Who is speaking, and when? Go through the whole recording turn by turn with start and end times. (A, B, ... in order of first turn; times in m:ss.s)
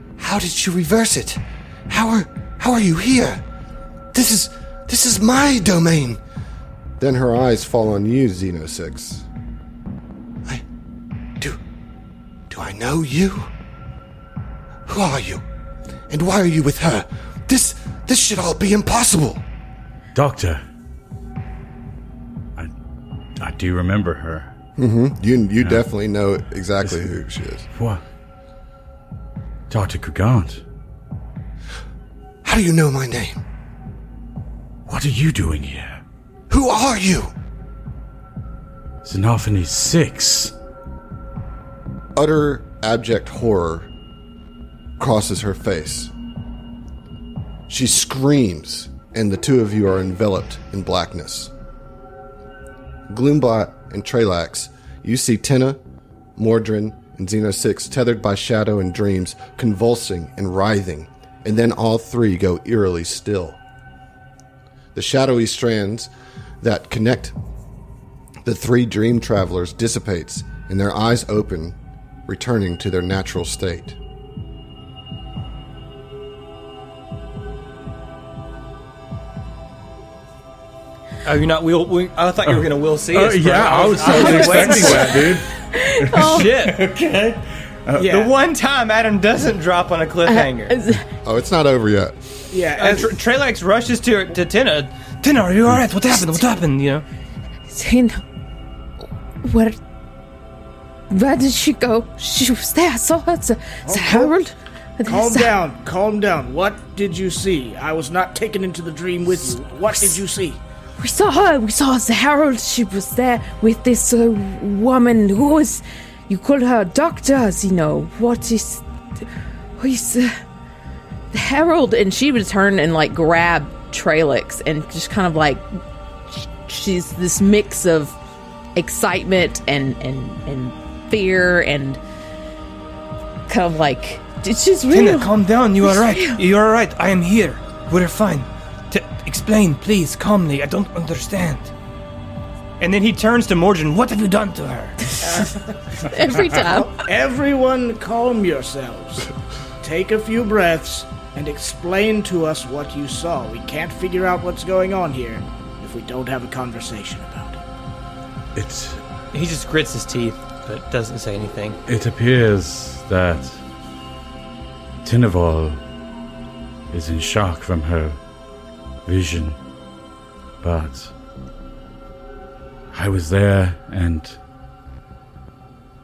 0:00.2-0:03.4 A
0:04.1-0:06.2 A
0:07.0-0:09.3 A
0:12.5-0:13.5 A
0:14.9-0:15.4 A
0:16.1-0:19.4 A
0:20.2-0:20.6 B
0:23.4-0:24.5 B
0:24.8-0:27.6 A
0:27.8-0:28.0 B
0:29.7-0:30.6 B
0:32.4-0:33.4 A
0:34.9-0:36.0 B
0:36.5-0:37.3 A
0:39.0-0:40.5 B
0:42.2-0:43.9 A
0:45.0-0:46.1 A
0:47.7-0:51.5 A
0:53.1-0:55.8 A
0:56.4-1:03.6 A
1:05.0-1:06.1 A
1:06.6-1:07.4 A
1:08.4-1:11.8 A
1:12.3-1:14.0 A
1:21.2-1:25.3 C
1:22.5-1:28.1 B
1:24.1-1:25.0 D
1:24.1-1:25.1 E
1:25.5-1:26.5 D
1:26.2-1:26.9 C
1:28.0-1:28.3 E
1:28.0-1:30.8 C
1:30.3-1:31.0 D
1:31.2-1:32.4 A
1:32.5-1:33.1 E
1:32.8-1:37.0 C
1:36.2-1:36.4 D
1:37.7-1:38.2 D
1:39.4-1:39.8 D
1:41.1-1:45.6 D
1:43.9-1:44.4 E
1:45.1-1:50.6 E
1:49.9-1:50.2 D
1:51.0-1:59.2 D
1:59.8-2:00.4 D
2:01.3-2:05.6 D
2:06.3-2:08.2 D
2:08.8-2:12.0 D
2:13.5-2:16.4 D
2:14.9-2:21.7 C
2:22.8-2:25.4 C
2:25.2-2:37.6 E
2:26.0-2:27.0 D
2:38.6-2:39.0 B
2:39.3-2:41.8 C
2:41.9-2:43.6 B
2:45.0-2:45.8 B
2:46.9-2:48.2 B
2:49.0-2:49.6 B
2:50.6-2:51.1 B
2:52.9-2:54.4 B